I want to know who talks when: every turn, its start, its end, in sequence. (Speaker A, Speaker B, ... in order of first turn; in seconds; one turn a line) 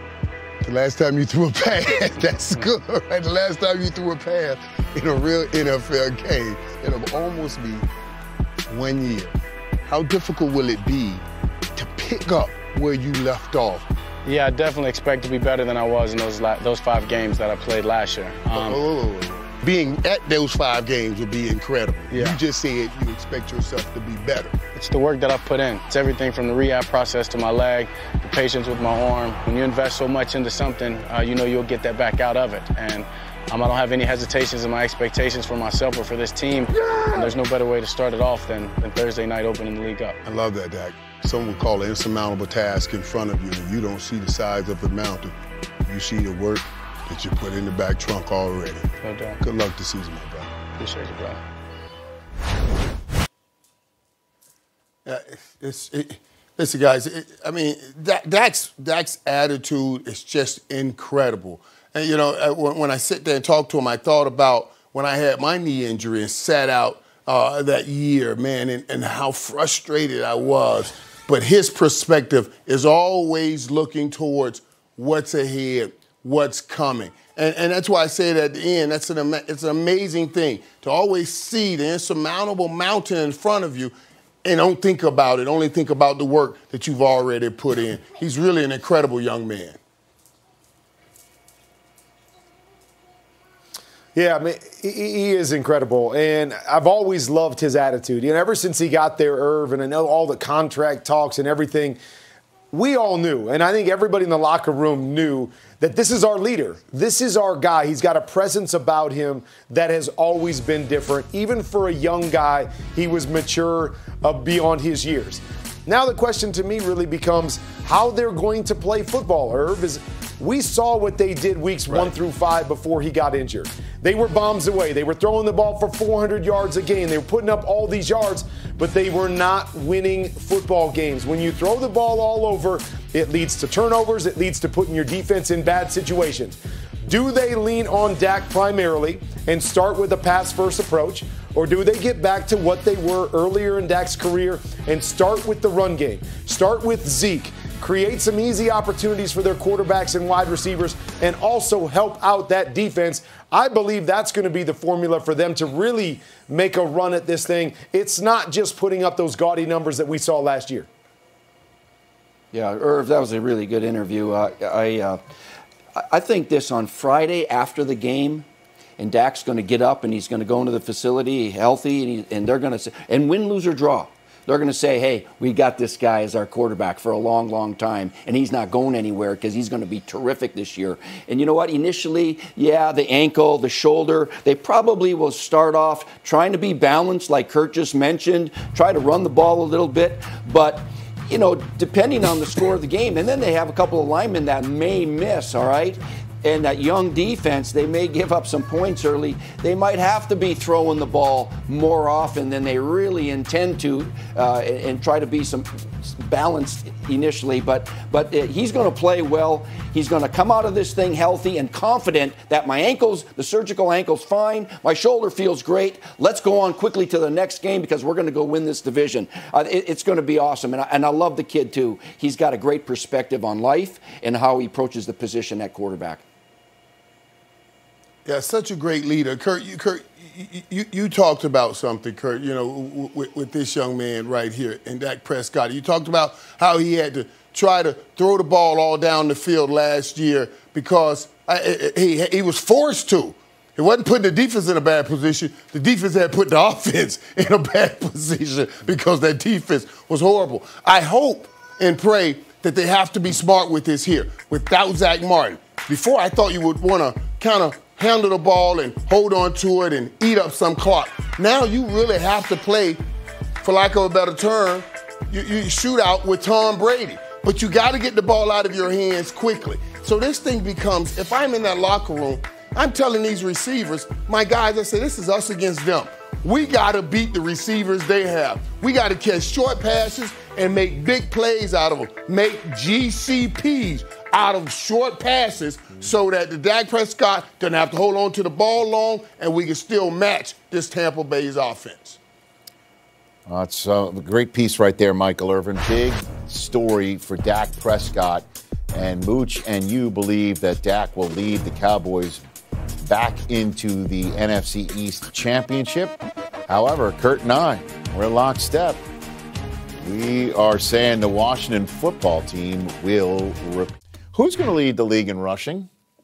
Speaker A: 0.6-7.9
Speaker A: 8.7-11.2
Speaker A: 11.8-13.9
Speaker B: 14.2-18.8
Speaker A: 18.5-24.6
Speaker B: 22.1-22.4
Speaker B: 24.8-40.2
Speaker A: 40.2-45.3
Speaker A: 45.9-48.9
Speaker B: 49.0-49.4
Speaker A: 49.4-50.5
Speaker B: 50.8-51.4
Speaker A: 55.0-83.9
Speaker A: 84.4-89.8
Speaker C: 94.2-102.0
Speaker C: 102.7-160.9
Speaker D: 162.5-165.2
Speaker D: 165.9-168.5
Speaker D: 169.0-226.2
Speaker A: 228.2-263.0
Speaker A: 263.6-292.2
Speaker E: 293.5-302.4
Speaker E: 303.0-309.0
Speaker E: 310.0-315.9